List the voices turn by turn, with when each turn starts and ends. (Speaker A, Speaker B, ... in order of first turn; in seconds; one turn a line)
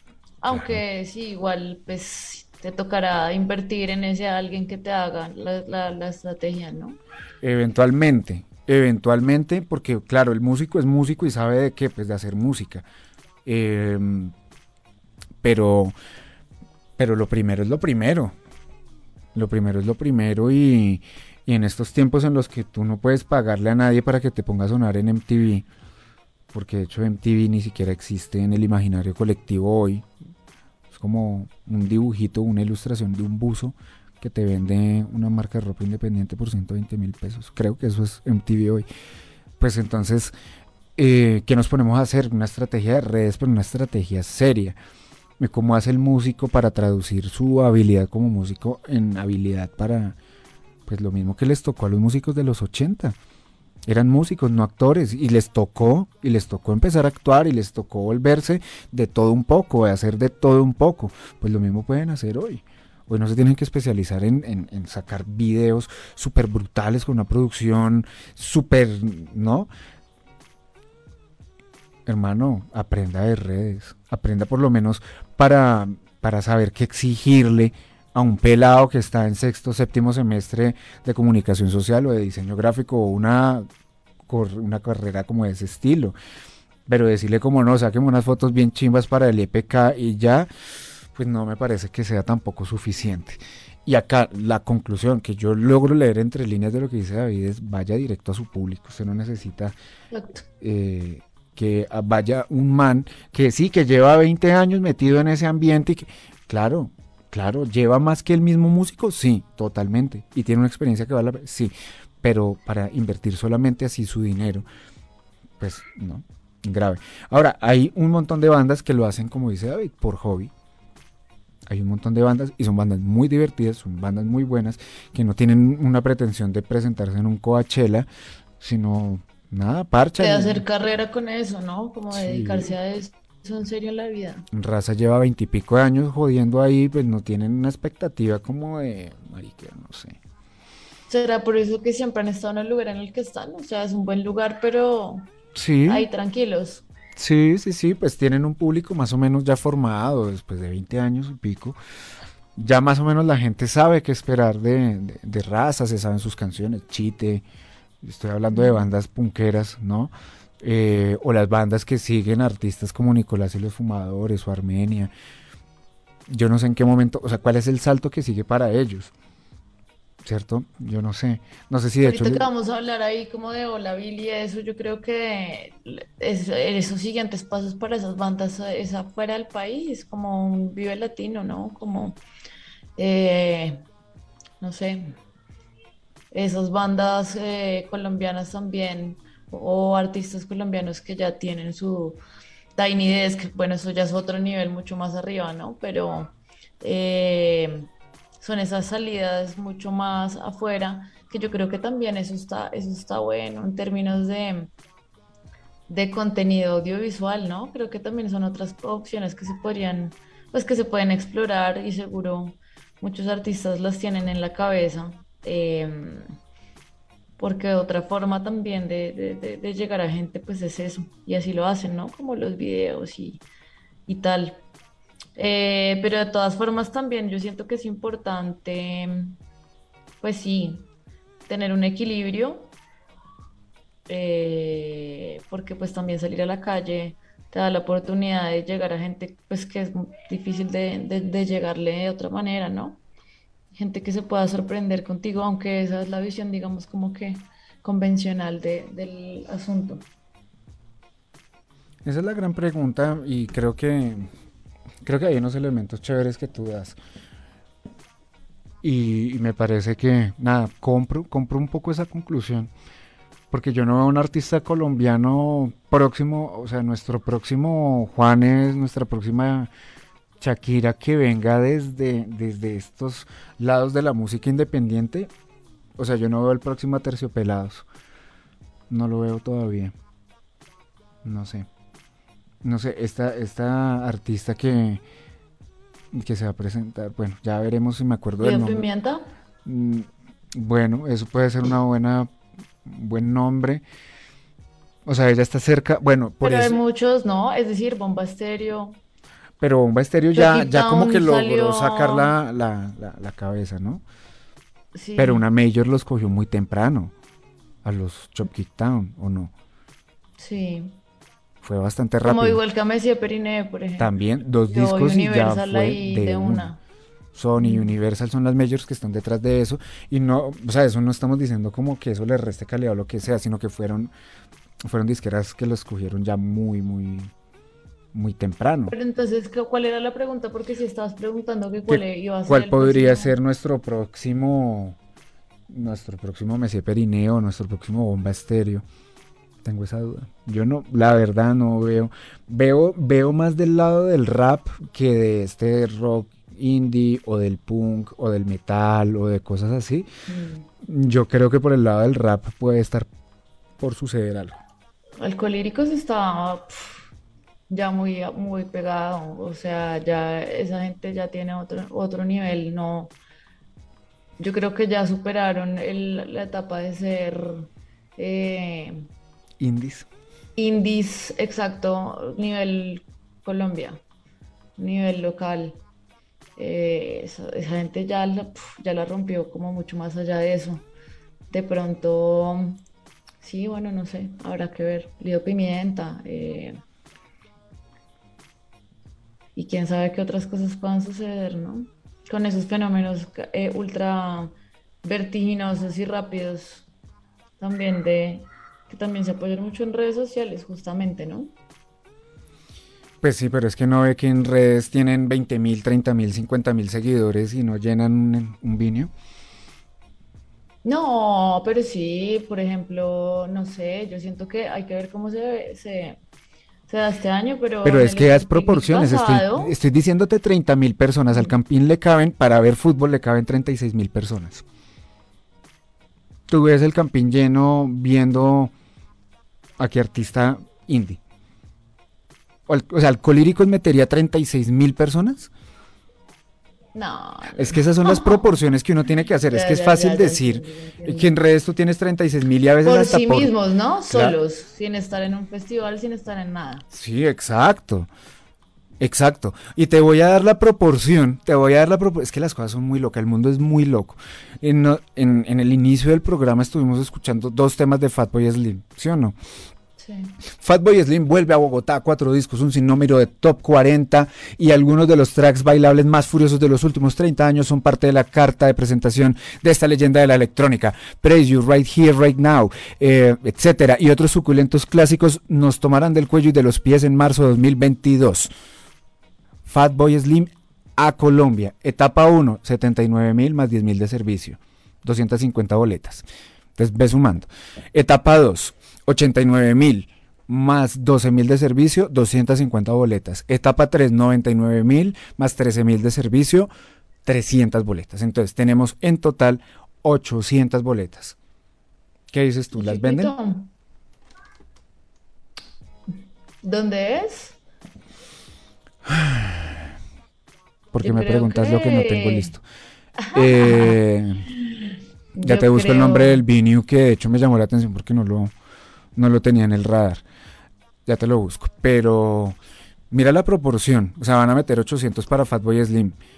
Speaker A: 0.4-7.0
Speaker B: 0.5-0.8
Speaker B: 7.4-12.9
Speaker B: 13.5-14.3
Speaker B: 15.4-15.9
Speaker B: 17.0-18.4
Speaker B: 19.4-25.7
Speaker B: 26.5-30.1
Speaker B: 30.9-38.9
Speaker B: 39.6-40.3
Speaker B: 41.0-44.8
Speaker B: 45.4-50.2
Speaker B: 50.9-53.2
Speaker B: 53.9-69.7
Speaker B: 72.1-83.7
Speaker B: 84.3-86.2
Speaker B: 86.9-90.5
Speaker B: 91.2-99.8
Speaker A: 100.1-100.4
Speaker B: 100.6-114.7
Speaker B: 115.6-120.5
Speaker B: 121.7-128.1
Speaker B: 128.6-130.7
Speaker A: 130.2-134.5
Speaker B: 132.1-132.7
Speaker B: 134.5-140.2
Speaker A: 141.1-145.3
Speaker B: 145.6-146.1
Speaker A: 145.9-146.8
Speaker B: 147.2-151.8
Speaker B: 152.6-157.4
Speaker B: 158.0-165.1
Speaker A: 158.5-158.9
Speaker B: 166.3-169.1
Speaker B: 170.2-172.5
Speaker A: 172.0-182.2
Speaker A: 183.0-183.8
Speaker A: 184.6-185.2
Speaker A: 186.3-192.2
Speaker A: 192.8-197.9
Speaker A: 198.4-204.7
Speaker A: 205.9-216.3
Speaker A: 217.4-223.4
Speaker A: 224.1-224.6
Speaker A: 225.4-229.3
Speaker A: 230.2-230.9
Speaker A: 231.5-232.7
Speaker A: 234.1-243.0
Speaker A: 243.8-250.1
Speaker B: 252.0-254.3
Speaker B: 255.0-257.0
Speaker B: 258.8-262.7
Speaker B: 263.5-269.7
Speaker B: 270.4-275.3
Speaker B: 276.0-277.9
Speaker B: 278.9-279.9
Speaker B: 281.2-281.7
Speaker B: 282.6-285.0
Speaker B: 286.1-288.9
Speaker A: 288.4-289.3
Speaker B: 289.6-292.3
Speaker B: 292.8-293.8
Speaker B: 295.1-296.8
Speaker A: 296.4-299.0
Speaker B: 299.6-304.0
Speaker A: 300.3-302.3
Speaker A: 304.9-305.4
Speaker B: 305.2-307.1
Speaker B: 307.8-309.5
Speaker A: 310.4-311.0
Speaker B: 311.6-312.6
Speaker A: 312.2-314.1
Speaker B: 314.0-316.7
Speaker A: 314.7-316.8
Speaker B: 317.3-324.1
Speaker A: 317.6-317.9
Speaker B: 324.9-327.3
Speaker B: 328.1-328.9
Speaker A: 328.9-333.4
Speaker B: 331.9-335.0
Speaker B: 335.7-338.9
Speaker B: 339.6-350.1
Speaker A: 350.3-350.7
Speaker B: 350.8-353.1
Speaker B: 353.8-354.6
Speaker A: 355.2-357.1
Speaker A: 357.7-363.1
Speaker A: 364.4-369.1
Speaker B: 369.6-370.1
Speaker A: 370.6-374.0
Speaker A: 374.8-375.8
Speaker A: 376.6-380.9
Speaker A: 381.5-382.8
Speaker A: 383.4-386.8
Speaker A: 389.6-396.9
Speaker A: 397.6-401.5
Speaker B: 403.2-409.1
Speaker A: 410.8-416.2
Speaker A: 416.9-419.8
Speaker B: 417.8-424.6
Speaker B: 426.5-428.7
Speaker B: 429.8-431.2
Speaker B: 432.7-435.5
Speaker A: 436.9-438.5
Speaker B: 437.6-443.5
Speaker A: 439.5-441.3
Speaker A: 442.8-446.9
Speaker B: 444.1-444.4
Speaker B: 446.9-448.1
Speaker B: 449.0-459.4
Speaker A: 460.0-460.4
Speaker B: 460.6-478.5
Speaker B: 479.7-486.2
Speaker B: 486.8-496.7
Speaker B: 497.2-501.4
Speaker B: 502.3-503.3
Speaker A: 502.7-503.7
Speaker A: 506.6-507.6
Speaker B: 509.1-509.9
Speaker B: 510.9-512.6
Speaker A: 511.0-512.5
Speaker A: 513.2-514.0
Speaker B: 513.3-514.5
Speaker A: 515.4-516.4
Speaker B: 515.4-518.5
Speaker B: 519.1-520.2
Speaker B: 521.1-522.6
Speaker B: 523.1-526.2